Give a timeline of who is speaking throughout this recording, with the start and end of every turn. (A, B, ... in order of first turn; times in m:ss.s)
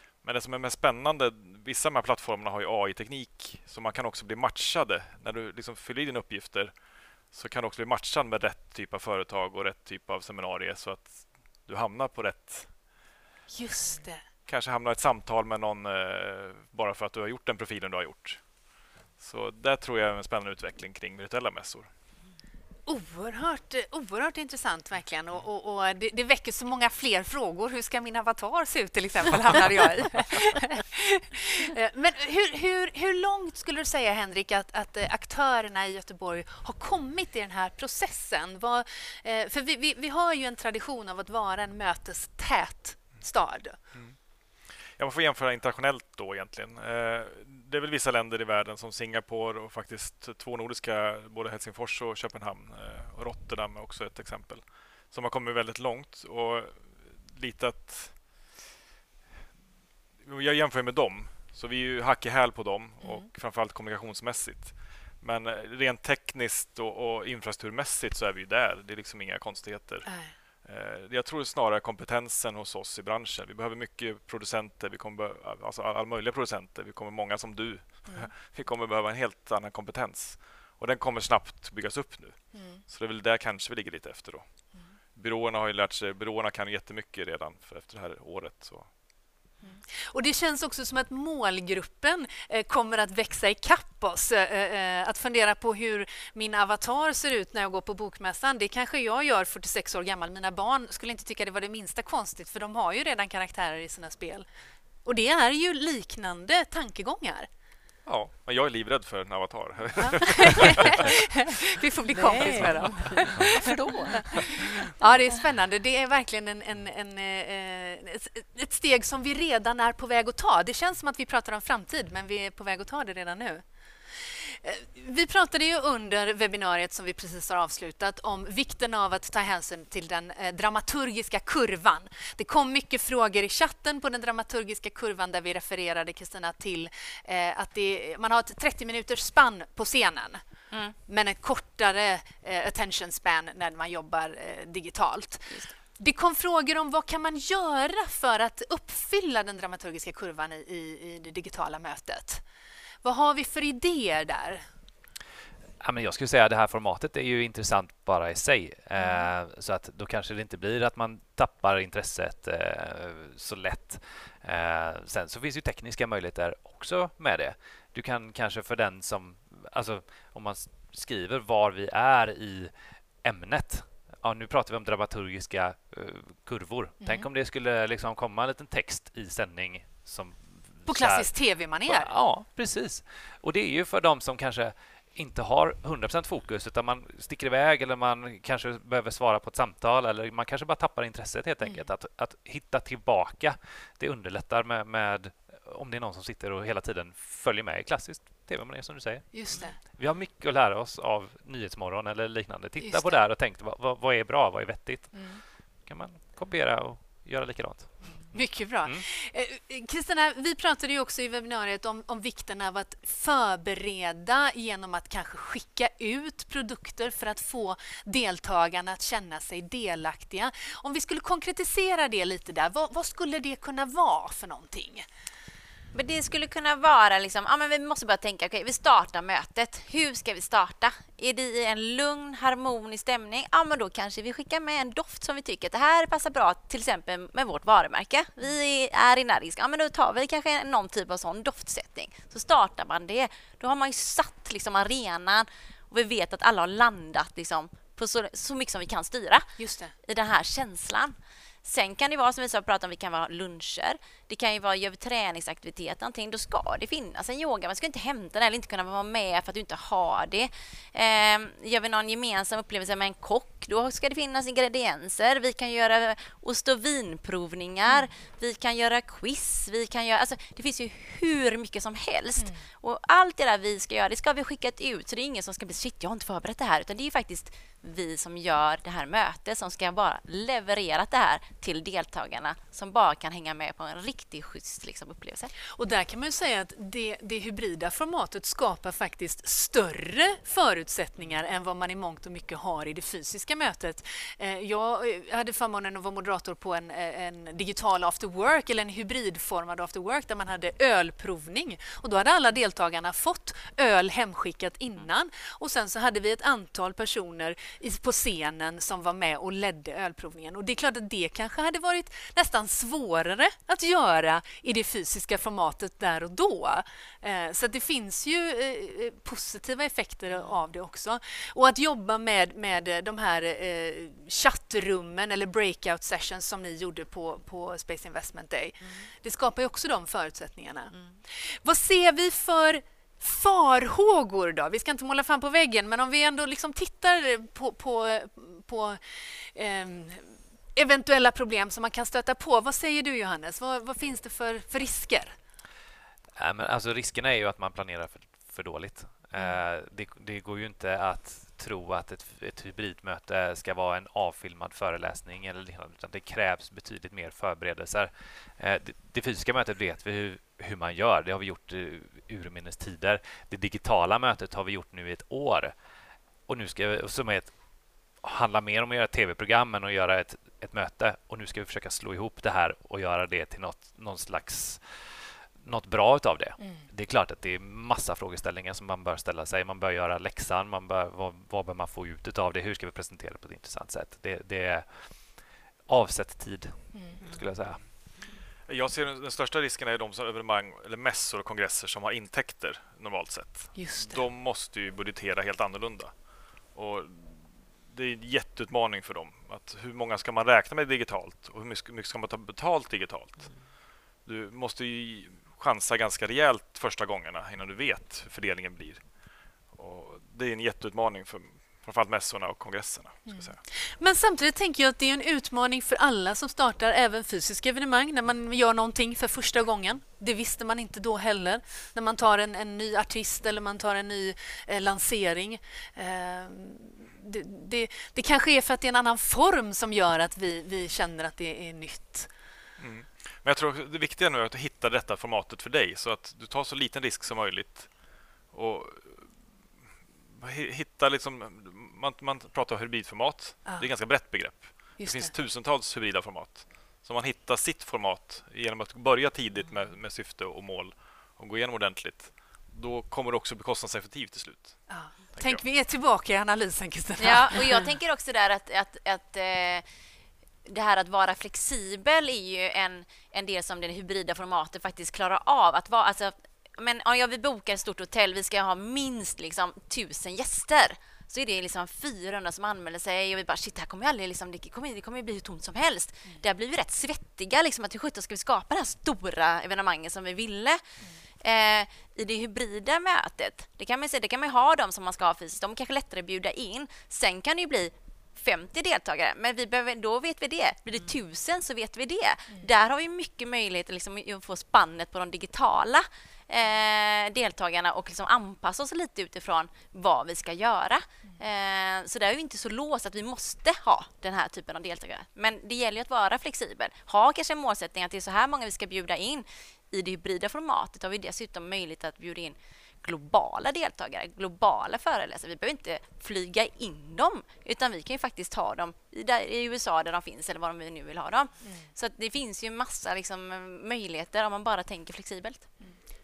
0:00.2-0:12.9 A
0:13.5-0:14.2 B
0:14.4-0:21.9 A
0:22.9-0:43.8 B
0:43.9-0:58.3 A
1:00.2-1:28.9 A
1:03.0-1:03.3 B
1:10.0-1:10.3 B
1:22.5-1:22.8 B
1:29.6-1:44.5 B
1:45.0-1:47.5 B
1:48.0-1:51.1 A
1:50.0-1:53.7 B
1:52.1-1:54.7 C
1:54.2-2:03.6 B
2:04.2-2:20.4 B
2:20.7-2:21.0 D
2:21.1-2:32.4 B
2:33.0-2:34.6 B
2:35.8-3:28.2 E
2:39.0-2:39.3 B
2:57.0-2:57.2 B
3:00.9-3:02.1 B
3:19.3-3:19.8 B
3:22.8-3:23.2 B
3:25.1-3:25.4 B
3:28.3-3:45.0 B
3:45.9-4:45.5 D
4:09.6-4:09.9 B
4:32.4-4:32.6 B
4:45.7-5:45.3 B
5:46.4-6:05.7 E
5:49.3-5:49.6 B
6:06.5-6:07.6 E
6:08.1-6:28.3 E
6:16.6-6:16.9 B
6:26.9-6:27.2 B
6:28.6-6:49.1 A
6:33.7-6:34.2 B
6:49.7-6:53.6 A
6:53.3-7:12.3 B
7:12.8-7:19.4 A
7:20.3-7:35.6 A
7:25.0-7:25.3 B
7:34.9-7:37.9 B
7:37.2-7:39.8 D
7:40.6-8:00.8 D
8:01.4-8:45.7 D
8:41.6-8:41.9 B